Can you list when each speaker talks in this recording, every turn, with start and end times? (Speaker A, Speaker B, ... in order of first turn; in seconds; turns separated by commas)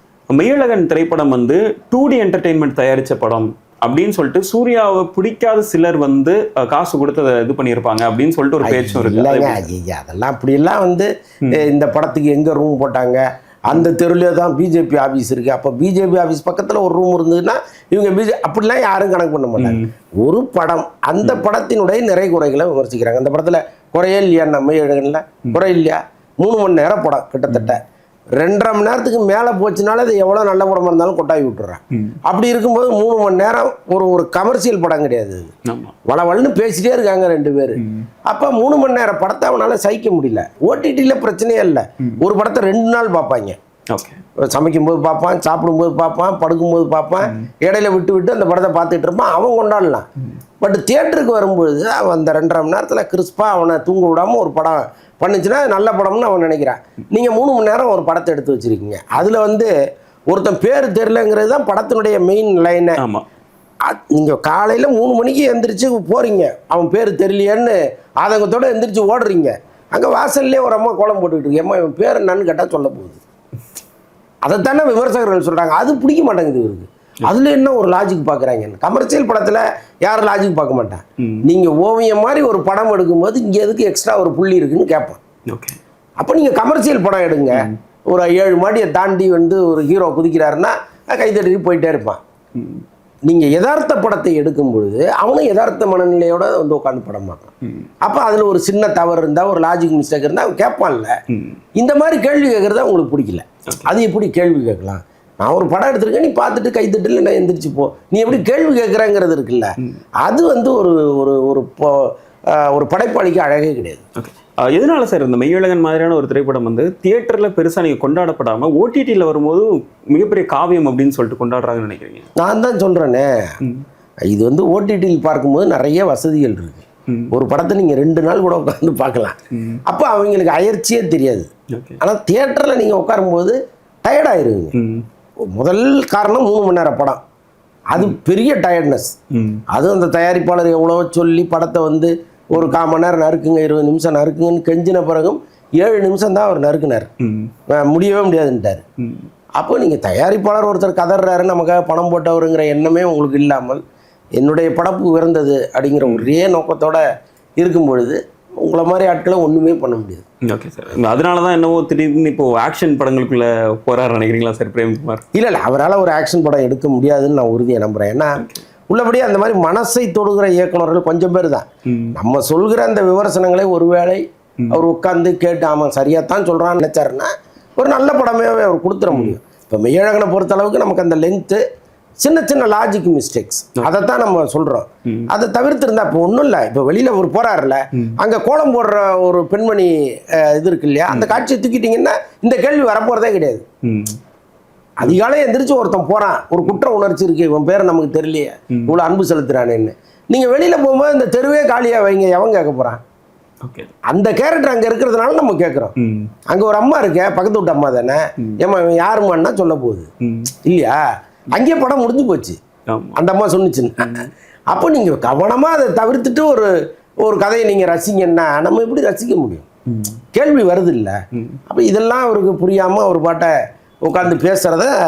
Speaker A: 0.3-9.7, Speaker B: 8.6-27.8, Speaker A: 19.6-19.9, Speaker A: 27.5-27.7, Speaker B: 28.4-35.5, Speaker A: 31.9-32.2, Speaker A: 35.6-35.9, Speaker B: 36.0-43.6, Speaker A: 37.8-38.1, Speaker A: 43.9-44.2, Speaker B: 44.4-50.0, Speaker B: 50.6-59.7, Speaker B: 60.3-63.0, Speaker A: 63.0-63.2, Speaker B: 63.8-73.2, Speaker B: 74.4-85.2, Speaker A: 81.2-81.5, Speaker A: 85.5-85.8, Speaker B: 86.2-92.2, Speaker A: 87.5-87.8, Speaker A: 92.5-92.8, Speaker B: 93.2-101.2, Speaker A: 97.6-97.9, Speaker A: 101.3-101.6, Speaker B: 101.8-114.0, Speaker A: 114.2-122.3, Speaker B: 122.4-123.5, Speaker B: 124.2-131.5, Speaker A: 127.1-127.3, Speaker A: 129.5-129.8, Speaker A: 131.7-132.0, Speaker B: 132.0-134.7, Speaker A: 134.7-135.0, Speaker B: 135.5-137.2, Speaker B: 137.9-139.1, Speaker A: 139.3-139.6, Speaker B: 139.7-147.1, Speaker A: 147.2-147.5, Speaker B: 147.7-148.8, Speaker A: 149.0-149.3, Speaker B: 149.6-153.8, Speaker B: 154.4-157.0, Speaker B: 157.6-160.2, Speaker A: 160.4-165.2, Speaker B: 165.3-181.6, Speaker A: 171.8-172.2, Speaker A: 179.1-179.3, Speaker B: 182.2-193.6, Speaker A: 191.1-191.4, Speaker A: 193.8-194.2, Speaker B: 195.0-203.0, Speaker A: 203.6-203.9, Speaker B: 204.1-205.9, Speaker A: 206.0-206.3, Speaker B: 206.5-210.1, Speaker A: 210.2-210.5, Speaker B: 210.6-212.6, Speaker A: 212.9-213.2, Speaker B: 213.2-214.2, Speaker A: 214.0-214.3, Speaker B: 214.7-216.7, Speaker B: 217.2-219.7, Speaker A: 219.9-220.2, Speaker B: 220.3-221.2, Speaker A: 221.3-221.6, Speaker B: 221.7-224.9